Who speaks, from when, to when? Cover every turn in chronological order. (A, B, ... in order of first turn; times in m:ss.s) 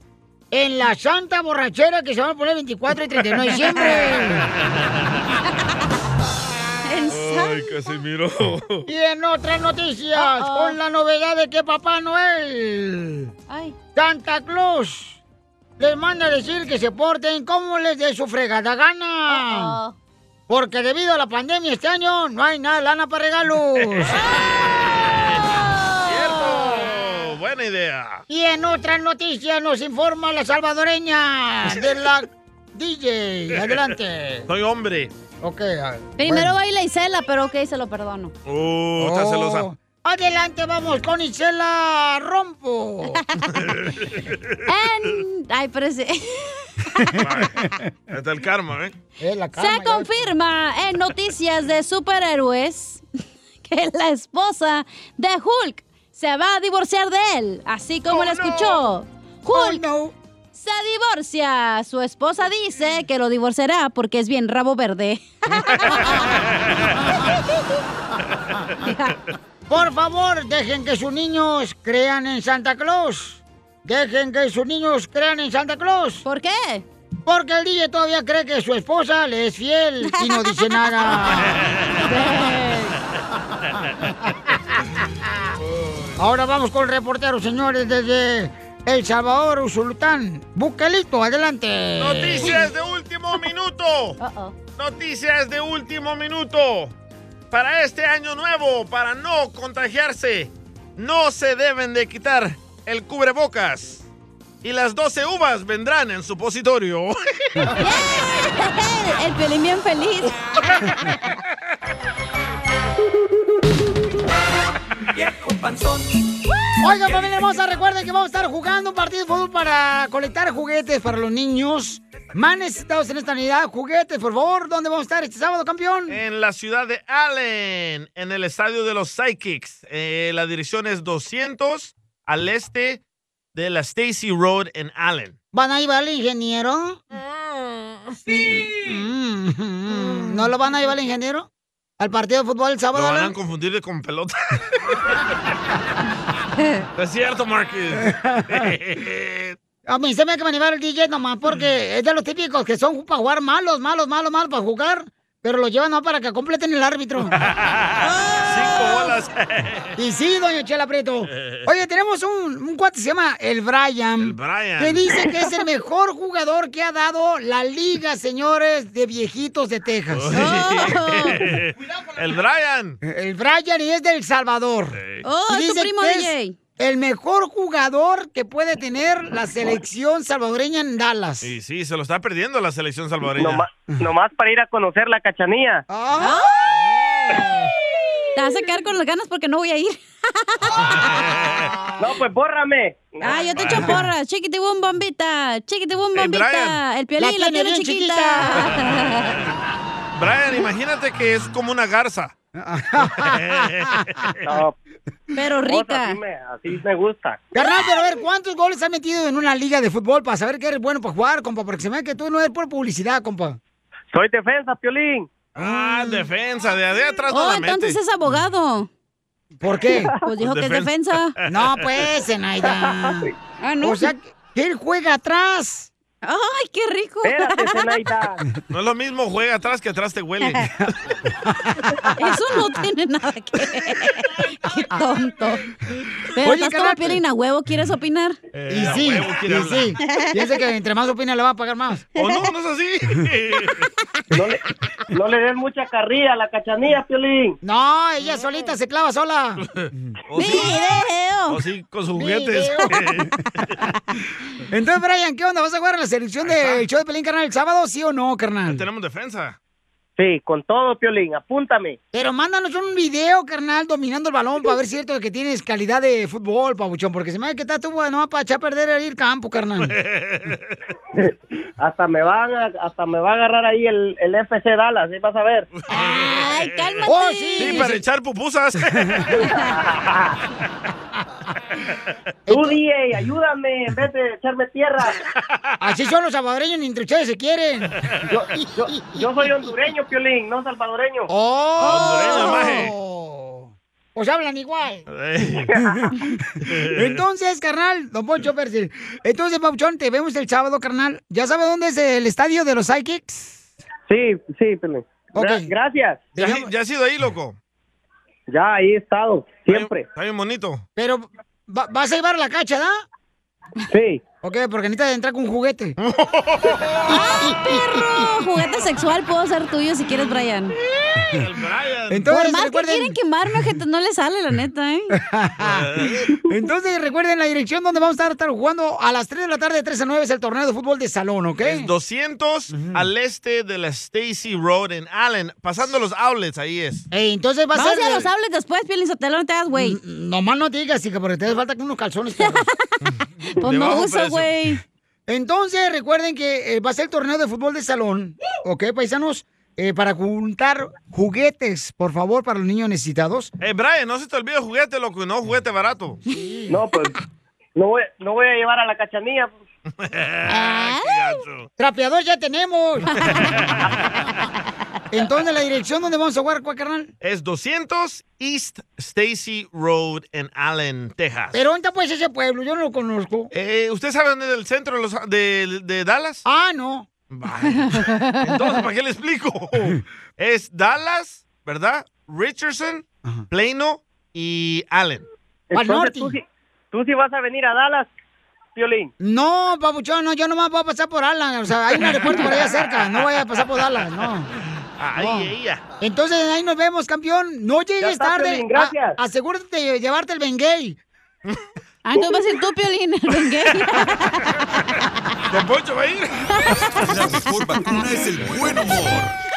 0:00.5-0:04.5 A
0:06.9-0:07.7 B
0:07.1-0:08.9 C
0:08.9-0:13.3 A
0:10.2-0:10.8 B
0:13.5-0:13.8 B
0:14.0-0:15.2 A
0:15.8-0:19.8 A
0:19.3-0:20.0 B
0:20.5-0:24.2 A
0:24.2-0:25.5 C
0:25.7-0:26.8 B
0:26.1-0:28.2 C
0:28.3-0:34.5 A
0:34.5-0:35.1 C
0:35.4-0:36.5 A
0:36.2-0:38.3 B
0:38.5-0:39.7 C
0:39.0-0:43.2 A
0:43.6-0:44.4 C
0:44.7-0:47.2 B
0:47.0-0:47.8 A
0:47.2-0:48.9 C
0:49.2-0:50.3 A
0:49.6-0:53.0 B
0:53.6-0:59.8 B
0:58.2-0:58.7 C
0:59.5-1:00.1 A
1:00.5-1:06.3 B
1:09.7-1:16.2 A
1:16.2-1:16.8 B
1:17.3-1:22.2 A
1:20.2-1:21.1 B
1:21.4-1:22.0 C
1:22.0-1:22.9 B
1:25.7-1:26.2 C
1:26.2-1:32.6 A
1:32.0-1:34.2 C
1:34.2-1:34.5 B
1:34.8-1:36.9 C
1:37.5-1:44.1 C
1:44.6-1:47.2 C
1:47.8-1:50.9 B
1:56.8-2:06.2 A
2:06.1-2:13.0 C
2:13.6-2:15.4 C
2:15.5-2:17.0 A
2:17.1-2:18.2 C
2:18.3-2:21.5 A
2:22.0-2:23.3 A
2:22.9-2:24.6 C
2:27.0-2:29.6 C
2:28.1-2:28.7 A
2:29.9-2:37.4 A
2:37.4-2:39.9 C
2:38.0-2:39.2 B
2:40.0-2:50.4 A
2:41.3-2:41.6 C
2:44.2-2:45.2 C
2:50.1-2:53.0 C
2:50.3-2:51.4 B
2:53.0-3:01.5 A
2:55.0-2:55.2 C
2:55.2-2:56.6 B
3:01.4-3:03.7 C
3:03.4-3:05.8 D
3:05.9-3:07.5 A
3:06.2-3:06.5 B
3:08.4-3:11.1 B
3:11.0-3:11.7 C
3:11.7-3:12.1 A
3:12.0-3:13.5 D
3:13.2-3:19.4 B
3:13.6-3:13.9 C
3:13.7-3:14.0 A
3:16.2-3:16.8 C
3:17.2-3:18.8 A
3:20.2-3:22.3 C
3:22.6-3:24.3 A
3:23.2-3:24.3 C
3:24.5-3:24.7 D
3:25.3-3:26.2 B
3:25.7-3:27.4 D
3:27.5-3:33.6 A
3:34.1-3:35.3 D
3:35.6-3:38.0 C
3:35.6-3:36.3 A
3:37.3-3:38.9 B
3:39.6-3:40.1 A
3:40.2-3:41.3 B
3:40.4-3:42.0 C
3:41.5-3:45.9 A
3:43.6-3:44.1 B
3:46.2-3:48.0 B
3:47.2-3:48.4 D
3:48.7-3:50.9 C
3:51.5-3:52.4 A
3:52.2-3:55.6 B
3:56.4-3:58.4 B
3:56.4-3:57.2 A
3:58.5-4:00.0 C
3:58.7-4:02.1 A
4:02.2-4:03.9 C
4:04.3-4:04.6 D
4:05.1-4:07.6 D
4:07.6-4:10.1 A
4:09.7-4:10.8 C
4:10.4-4:11.6 B
4:11.5-4:13.3 C
4:12.2-4:13.3 A
4:14.7-4:18.8 A
4:16.4-4:16.8 C
4:18.7-4:19.6 C
4:20.2-4:22.0 D
4:22.1-4:29.9 A
4:29.8-4:30.8 C
4:31.2-4:35.7 D
4:35.9-4:37.0 C
4:35.9-4:36.3 A
4:36.0-4:37.9 B
4:37.1-4:38.0 A
4:37.6-4:39.6 C
4:39.9-4:40.4 D
4:42.5-4:42.8 A
4:42.5-4:45.2 D
4:45.8-4:48.0 A
4:48.3-4:51.3 D
4:48.6-4:49.2 A
4:51.3-4:55.0 A
4:51.8-4:52.8 B
4:51.8-4:52.9 C
4:55.1-4:55.7 C
4:55.9-5:03.6 A
4:56.6-4:57.2 C
5:04.1-5:06.3 D
5:05.4-5:05.7 A
5:06.4-5:06.7 A
5:06.4-5:07.6 C
5:08.5-5:10.1 D
5:09.7-5:10.8 C
5:11.0-5:13.0 A
5:13.9-5:14.2 D
5:14.4-5:16.0 A
5:16.0-5:17.1 C
5:17.1-5:20.7 B
5:21.1-5:22.5 C
5:22.1-5:23.2 A
5:22.3-5:25.1 B
5:25.2-5:25.9 A
5:25.6-5:26.3 C
5:26.5-5:31.9 A
5:31.6-5:37.1 C
5:32.7-5:33.0 A
5:37.1-5:38.3 A
5:37.8-5:40.0 B
5:39.7-5:42.7 A
5:42.4-5:43.0 B
5:43.0-5:44.5 C
5:43.6-5:44.8 B
5:45.3-5:53.5 A
5:53.6-5:56.2 C
5:56.3-5:56.8 A
5:56.7-5:57.1 D
5:57.8-5:59.6 D
6:00.0-6:01.7 C
6:00.5-6:01.4 B
6:01.8-6:03.2 A
6:03.2-6:03.5 B
6:05.1-6:07.1 A
6:07.2-6:11.6 C
6:11.5-6:13.5 A
6:13.5-6:16.4 C
6:16.4-6:17.1 A
6:17.3-6:25.3 C
6:18.0-6:18.4 B
6:25.7-6:28.1 D
6:25.7-6:26.4 A
6:28.8-6:29.1 D
6:29.2-6:34.5 A
6:32.7-6:33.2 C
6:35.0-6:35.8 C
6:35.2-6:35.5 A
6:36.0-6:41.0 A
6:38.0-6:39.2 D
6:42.0-6:44.5 B
6:45.5-6:46.7 C
6:47.1-6:49.3 E